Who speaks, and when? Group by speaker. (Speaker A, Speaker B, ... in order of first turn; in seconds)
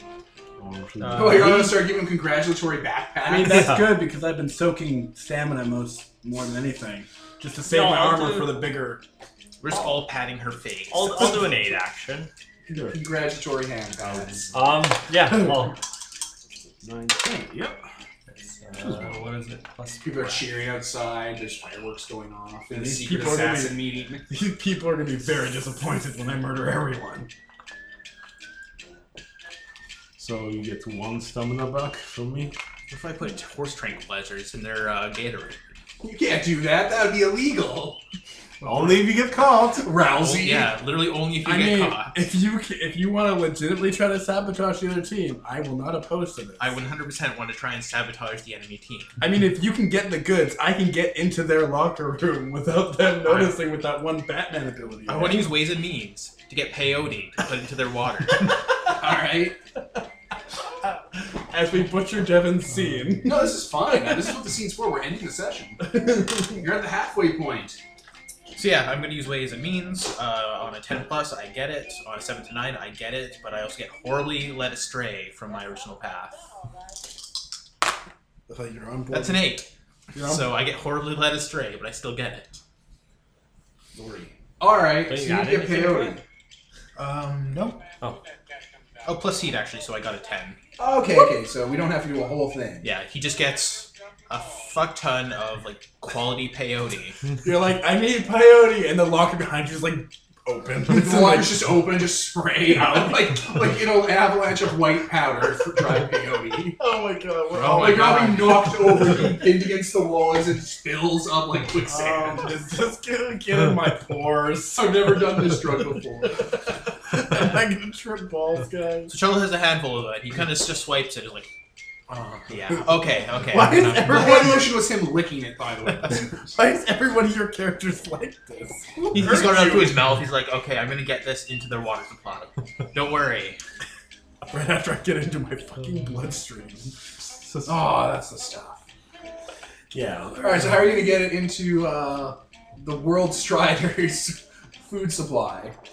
Speaker A: 0.6-1.7, 12.7-13.0, 14.0-14.6, 16.8-17.8, 18.7-19.2, 30.2-32.5, 38.6-39.9, 139.9-141.0
Speaker B: 1.0-1.7, 3.5-4.0, 7.6-8.6, 10.9-12.3, 14.5-15.8, 18.7-20.5, 85.1-86.2
Speaker C: 1.1-3.8, 12.9-14.5, 20.0-24.2, 36.0-38.0, 39.8-40.7, 59.0-59.6, 63.2-67.8, 84.0-86.2, 90.8-92.9, 100.9-106.8, 107.7-112.5, 114.7-116.4, 123.5-126.6, 129.0-129.8, 137.7-138.8, 140.4-145.8
Speaker D: 3.2-9.0, 22.7-27.3, 38.6-39.0, 41.4-46.7, 49.2-55.6, 61.5-63.6, 66.0-66.5, 78.5-79.5, 80.1-80.5, 97.4-101.6, 106.8-109.1, 111.9-115.2, 116.5-119.2, 123.5-124.8, 126.4-129.5, 134.5-137.8
Speaker E: 9.6-11.5, 32.9-35.6, 40.0-42.1, 46.6-49.2, 53.2-53.6, 55.1-58.6, 68.5-76.4, 79.1-82.5, 87.0-87.8, 89.0-90.6, 92.8-97.2, 107.6-108.6, 119.1-121.5, 122.1-124.5, 129.1-133.6